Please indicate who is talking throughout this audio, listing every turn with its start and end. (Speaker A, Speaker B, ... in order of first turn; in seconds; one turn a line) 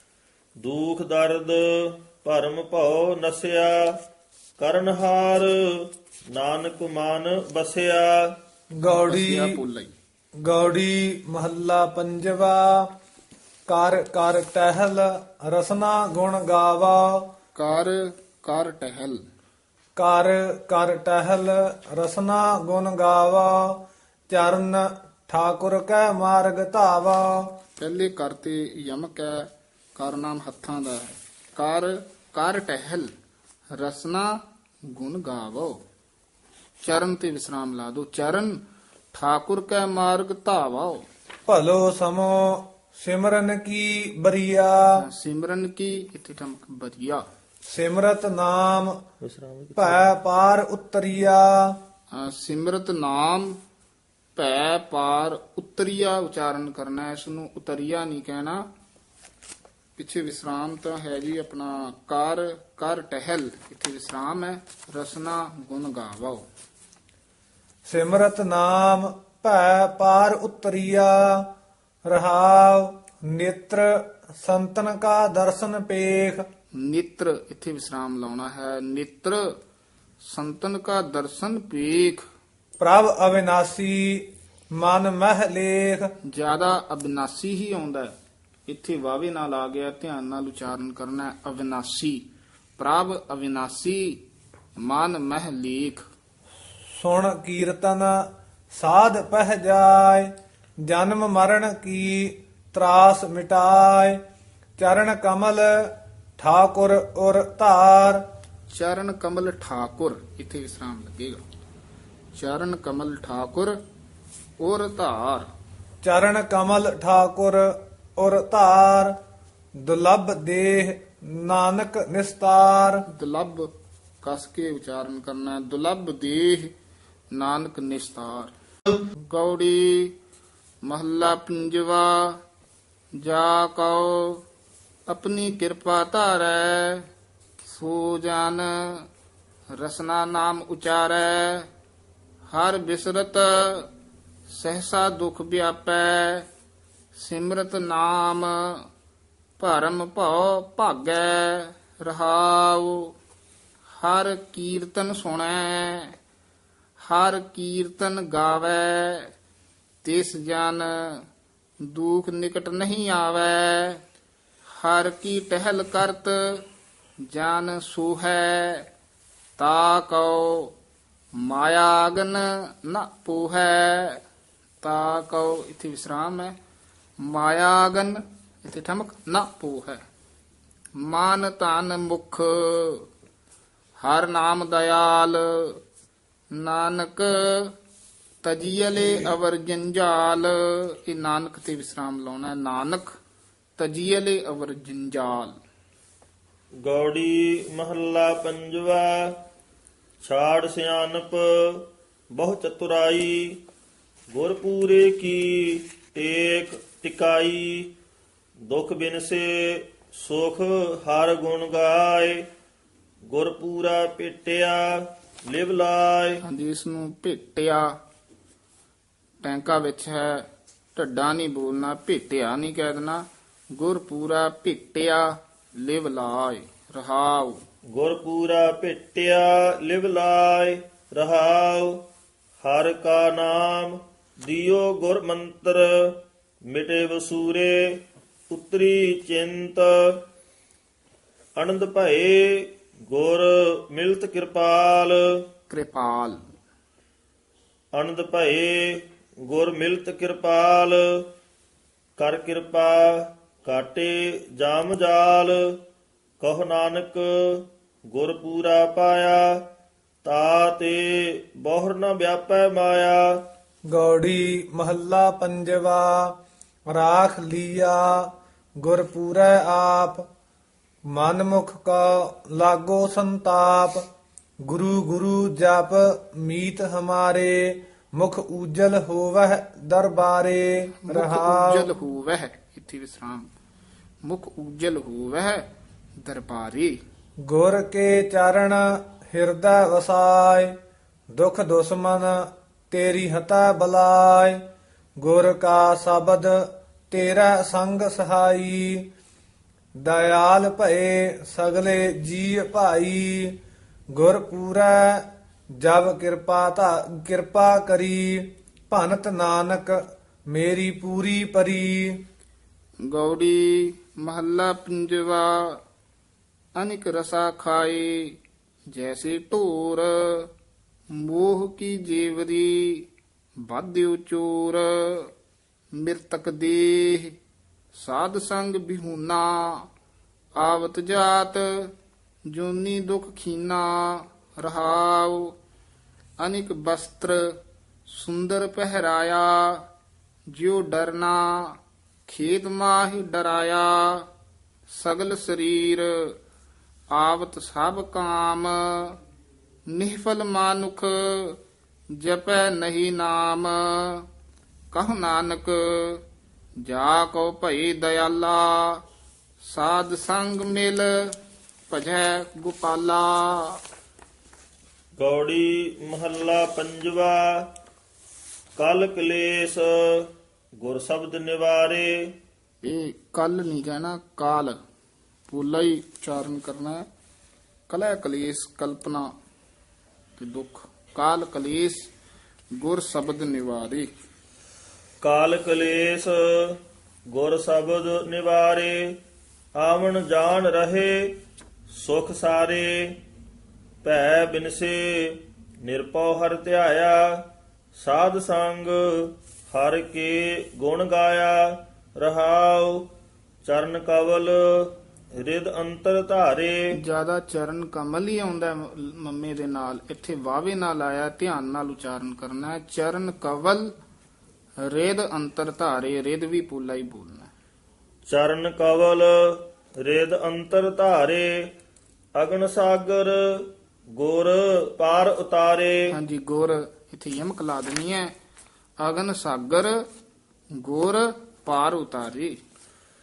Speaker A: 0.6-4.0
Speaker A: 4.6-8.3
Speaker B: 8.7-9.6
Speaker C: 8.9-9.9
Speaker B: 10.4-12.9
Speaker B: 13.7-17.3
Speaker C: 17.6-19.2
Speaker B: 20.0-27.5
Speaker C: 27.8-33.1
Speaker C: 33.8-34.4
Speaker C: 34.9-35.8
Speaker C: 36.8-38.6
Speaker C: 39.1-41.1
Speaker B: 41.5-45.0
Speaker C: 45.0-47.2
Speaker B: 47.7-49.0
Speaker A: 49.2-50.1
Speaker B: 49.8-51.8
Speaker C: 52.1-53.6
Speaker C: 54.4-58.6
Speaker C: 60.0-66.5
Speaker B: 67.9-71.5
Speaker B: 72.1-76.4
Speaker C: 76.8-79.5
Speaker C: 80.2-82.2
Speaker B: 82.8-86.1
Speaker C: 86.3-88.1
Speaker C: 88.7-92.3
Speaker C: 92.8-94.2
Speaker C: 94.8-96.0
Speaker B: 97.0-104.2
Speaker B: 104.8-108.2
Speaker C: 108.7-111.4
Speaker C: 112.3-113.8
Speaker C: 114.6-115.5
Speaker B: 116.0-119.2
Speaker B: 119.8-123.0
Speaker C: 123.1-123.7
Speaker C: 124.2-126.7
Speaker C: 127.3-128.5
Speaker C: 129.3-130.2
Speaker C: 130.8-132.4
Speaker C: 133.2-134.4
Speaker C: 135.1-137.1
Speaker C: 137.6-139.1
Speaker C: 139.8-141.7
Speaker C: 142.5-143.9
Speaker C: 144.5-146.5
Speaker C: 147.2-148.9
Speaker C: 149.6-153.1
Speaker C: 153.9-156.1
Speaker C: 157.0-159.3
Speaker C: 160.0-161.2
Speaker C: 161.8-164.0
Speaker C: 164.8-166.6
Speaker C: 167.3-168.9
Speaker C: 169.6-170.7
Speaker C: 171.4-174.2
Speaker C: 174.8-176.5
Speaker C: 177.2-180.0
Speaker C: 181.0-183.1
Speaker C: 184.0-185.8
Speaker C: 186.5-187.7
Speaker C: 188.4-193.1
Speaker C: 193.8-195.5
Speaker A: 196.8-199.3
Speaker A: 200.2-203.6
Speaker A: 204.3-207.9
Speaker A: 208.7-212.4
Speaker A: 213.3-216.4
Speaker C: 216.4-217.9
Speaker C: 219.4-220.4
Speaker C: 221.0-223.2
Speaker C: 223.8-227.6
Speaker A: 227.9-232.0
Speaker A: 232.6-236.2
Speaker A: 236.7-237.8
Speaker A: 238.5-239.9
Speaker A: 241.6-245.2
Speaker C: 245.7-246.4
Speaker A: 247.9-251.2
Speaker A: 252.2-255.6
Speaker A: 256.4-259.6
Speaker A: 260.2-263.2
Speaker B: 263.9-266.4
Speaker B: 266.9-270.3
Speaker B: 271.1-274.1
Speaker B: 274.6-281.9
Speaker C: 281.0-283.5
Speaker C: 284.2-285.6
Speaker C: 286.2-287.0
Speaker B: 287.4-290.8
Speaker B: 291.3-294.6
Speaker B: 295.2-299.1
Speaker B: 300.0-303.6
Speaker B: 304.1-305.3
Speaker B: 305.8-312.2
Speaker C: 313.1-315.8
Speaker C: 316.8-318.4
Speaker C: 318.9-320.5
Speaker C: 321.1-323.1
Speaker C: 323.6-325.3
Speaker C: 325.9-327.4
Speaker C: 327.9-329.9
Speaker C: 330.6-331.9
Speaker C: 332.5-335.5
Speaker C: 336.4-337.5
Speaker C: 338.1-339.9
Speaker C: 340.5-344.3
Speaker C: 344.9-346.4
Speaker C: 347.1-349.2
Speaker C: 349.9-351.6
Speaker C: 352.2-354.3
Speaker C: 354.9-356.2
Speaker C: 356.8-359.0
Speaker C: 359.6-361.3
Speaker C: 361.9-363.8
Speaker A: 365.2-367.7
Speaker A: 368.8-370.3
Speaker A: 370.8-372.2
Speaker C: 372.8-374.8
Speaker C: 375.5-377.0
Speaker C: 377.9-379.3
Speaker C: 380.4-382.1
Speaker C: 382.8-384.1
Speaker A: 385.2-386.8
Speaker A: 387.3-389.2
Speaker A: 389.8-391.3
Speaker A: 391.9-393.2
Speaker A: 394.0-397.4
Speaker A: 398.0-403.1
Speaker A: 403.6-406.8
Speaker C: 406.9-413.9
Speaker C: 414.8-417.5
Speaker A: 418.3-421.6
Speaker A: 422.4-426.0
Speaker C: 426.1-428.3
Speaker C: 429.0-430.0
Speaker C: 430.8-432.6